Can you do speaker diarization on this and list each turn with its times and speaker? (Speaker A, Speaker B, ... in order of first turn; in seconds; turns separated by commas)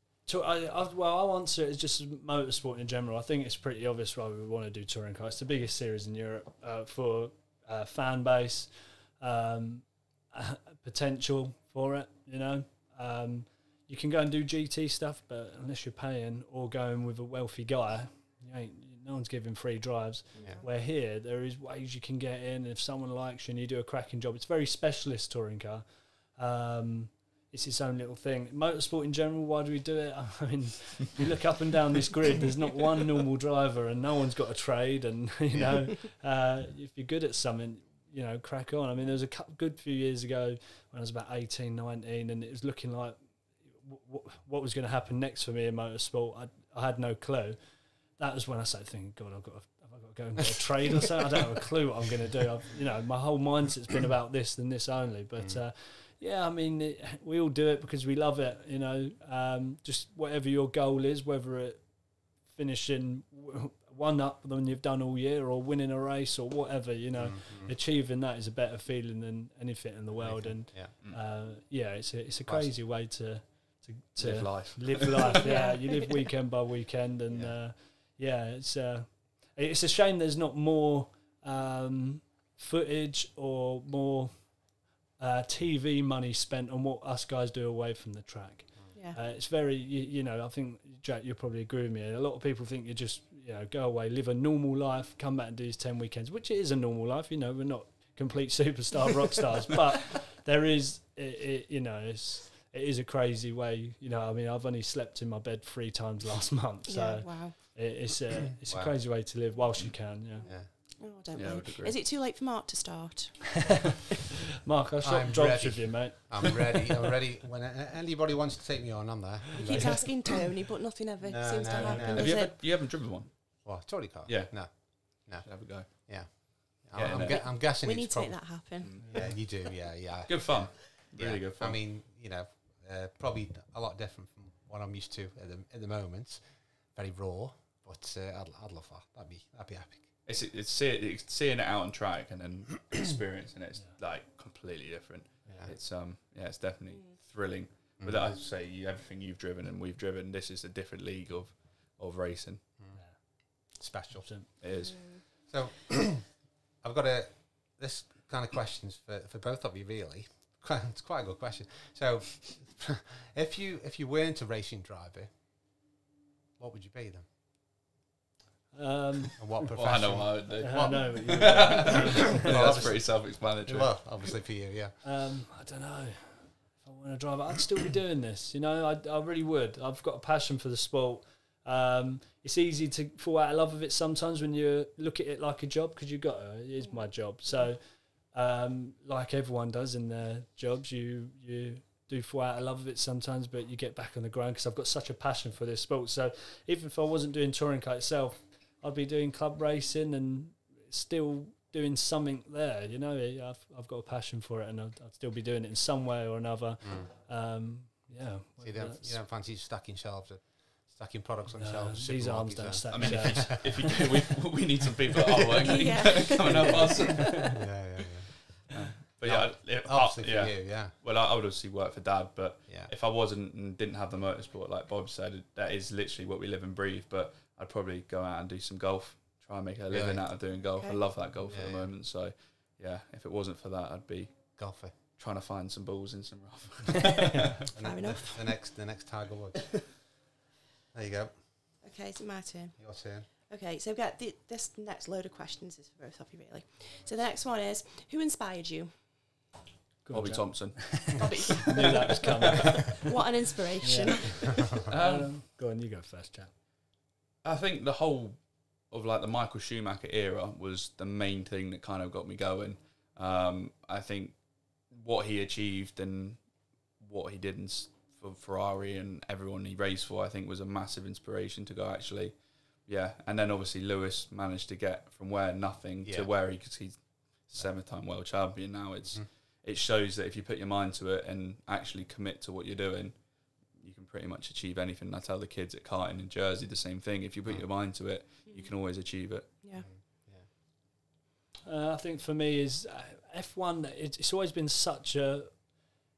Speaker A: 0.3-110.5, Speaker B: 20.4-20.6, Speaker C: 67.1-67.8, Speaker C: 70.1-70.9, Speaker C: 72.5-72.7, Speaker D: 74.2-75.4, Speaker B: 75.4-76.1, Speaker C: 77.3-77.6, Speaker B: 88.9-89.2, Speaker B: 106.9-107.7, Speaker C: 108.5-109.0, Speaker B: 110.4-114.0, Speaker C: 110.4-110.7, Speaker D: 111.3-112.0, Speaker A: 114.7-116.7, Speaker C: 115.0-120.3, Speaker B: 119.6-122.6, Speaker A: 119.7-120.0, Speaker C: 121.2-122.3, Speaker D: 121.8-123.7, Speaker C: 123.6-140.1, Speaker D: 124.3-127.5, Speaker B: 127.1-129.2, Speaker D: 128.8-129.3, Speaker D: 130.3-131.8, Speaker D: 140.3-152.6, Speaker B: 146.9-147.2, Speaker C: 148.0-148.3, Speaker C: 153.6-154.6, Speaker A: 154.2-154.5, Speaker D: 154.6-155.4, Speaker B: 154.8-155.2, Speaker C: 155.5-165.3, Speaker C: 166.6-167.3, Speaker A: 168.7-169.7, Speaker C: 169.4-175.0, Speaker D: 169.8-174.1, Speaker A: 170.6-172.6, Speaker A: 175.0-209.2, Speaker B: 186.8-187.7, Speaker C: 208.6-214.1, Speaker A: 211.6-213.9, Speaker D: 212.9-217.6, Speaker C: 215.3-218.5, Speaker B: 215.6-217.6, Speaker D: 218.7-237.6, Speaker C: 219.2-221.0, Speaker C: 229.9-230.3, Speaker C: 231.5-231.9, Speaker C: 234.6-234.9, Speaker A: 237.1-237.7, Speaker C: 237.7-240.2, Speaker B: 237.8-238.5, Speaker C: 240.9-241.8, Speaker B: 241.8-242.8, Speaker C: 242.8-243.3, Speaker B: 243.3-248.9, Speaker A: 250.1-253.2, Speaker D: 250.1-251.5, Speaker B: 251.1-254.8, Speaker A: 253.8-256.5, Speaker C: 254.6-254.9, Speaker D: 254.9-255.3, Speaker D: 257.4-266.4, Speaker D: 267.0-289.5, Speaker C: 276.0-276.3, Speaker B: 288.5-288.7, Speaker B: 289.6-289.9, Speaker C: 289.8-290.5, Speaker A: 291.7-295.7